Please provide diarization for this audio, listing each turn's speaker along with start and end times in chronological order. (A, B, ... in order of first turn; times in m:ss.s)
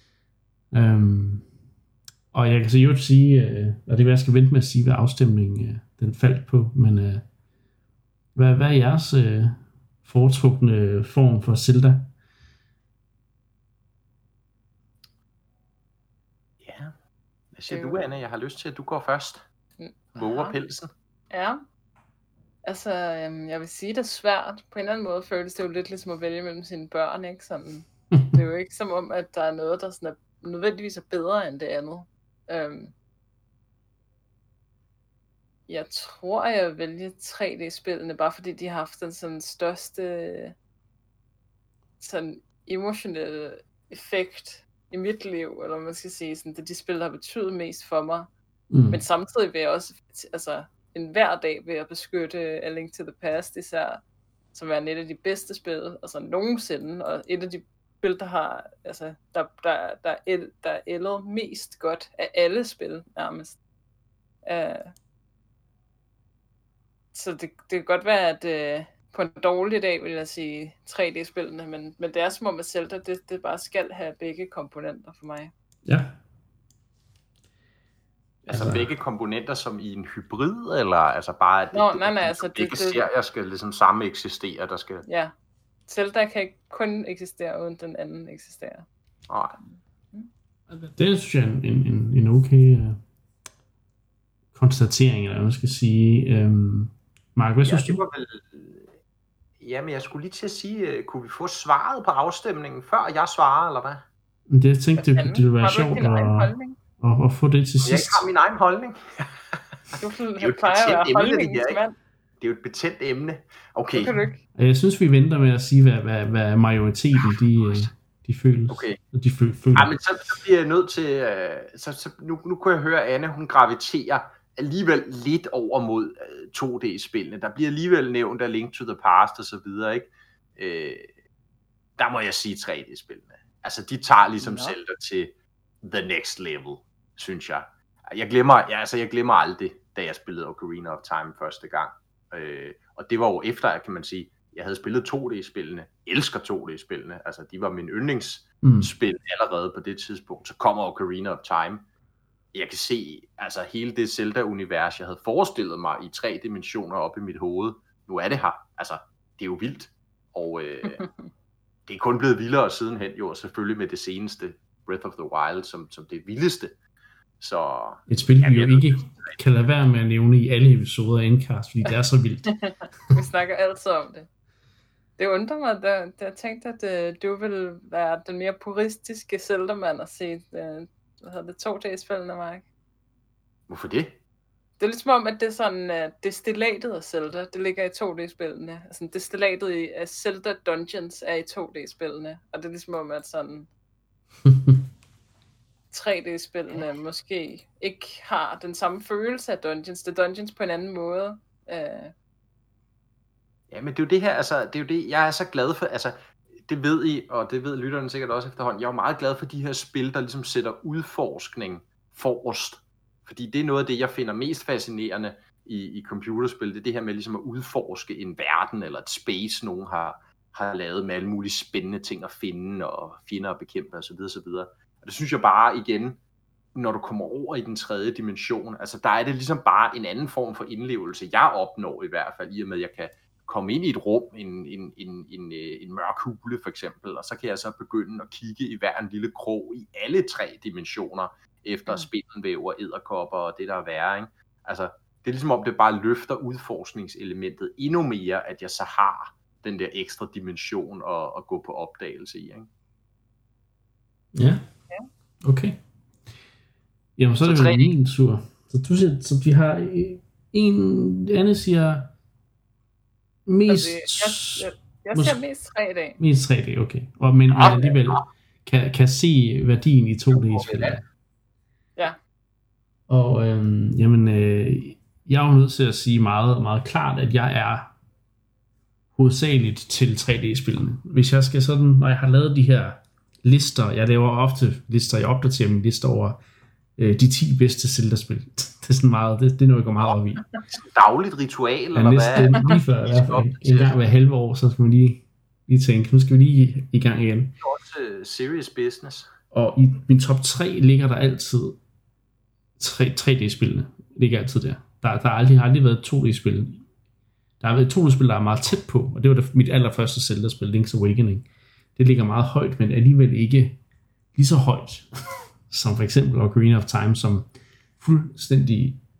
0:00.7-0:01.5 A
0:02.3-0:07.2 A
0:08.3-0:12.1 A
0:16.6-0:16.9 B
0:17.5-0:19.4 B
0:17.7-0:18.0 C
0:19.8-0:20.6 C
0:20.2-0:20.9 B
0:21.3-0:21.6 C
0:22.6-0:32.9 C
0:35.7-0:40.5 C
0:42.0-0:48.3 C
0:48.7-0:49.0 A
0:48.9-0:54.0 C
0:54.5-1:03.6 C
1:04.4-1:04.9 C
1:07.1-1:15.5 C
1:15.8-1:16.1 A
1:18.4-1:25.0 B
1:18.5-1:18.9 A
1:21.7-1:23.0 C
1:25.0-1:25.3 C
1:25.9-1:28.9 C
1:29.3-1:29.6 B
1:30.7-1:33.0 A
1:34.5-1:38.0 A
1:37.6-1:38.9 B
1:39.6-1:44.0 B
1:44.5-1:48.3 A
1:45.0-1:46.8 C
1:47.8-1:51.8 B
1:50.0-1:52.0 C
1:52.4-1:54.2 B
1:53.9-1:54.4 C
1:54.6-1:59.9 A
1:58.7-1:59.0 B
1:59.7-2:11.1 B
2:12.0-2:15.3 B
2:14.4-2:14.8 C
2:15.8-2:31.8 B
2:28.6-2:28.9 A
2:32.5-2:41.0 B
2:41.9-2:46.7 B
2:47.4-2:49.4 B
2:48.1-2:52.5 A
2:53.1-2:54.3 C
2:55.2-3:02.6 C
3:03.7-3:04.1 B
3:04.8-3:13.7 C
3:14.5-3:14.7 A
3:15.9-3:22.1 C
3:23.7-3:46.2 B
3:46.7-4:12.7 B
4:14.3-4:14.6 A
4:15.4-4:15.8 A
4:17.2-4:22.1 A
4:17.4-4:17.9 B
4:23.4-4:25.4 A
4:23.7-4:26.2 C
4:26.2-4:31.0 A
4:27.5-4:28.2 B
4:30.3-4:31.0 B
4:33.1-4:37.9 A
4:39.1-4:46.4 A
4:47.0-4:50.4 A
4:50.7-4:54.0 B
4:51.9-4:57.5 A
4:57.6-4:59.3 B
4:59.5-5:01.8 A
5:02.8-5:06.8 A
5:07.6-5:13.8 A
5:14.3-5:15.1 A
5:15.7-5:19.0 A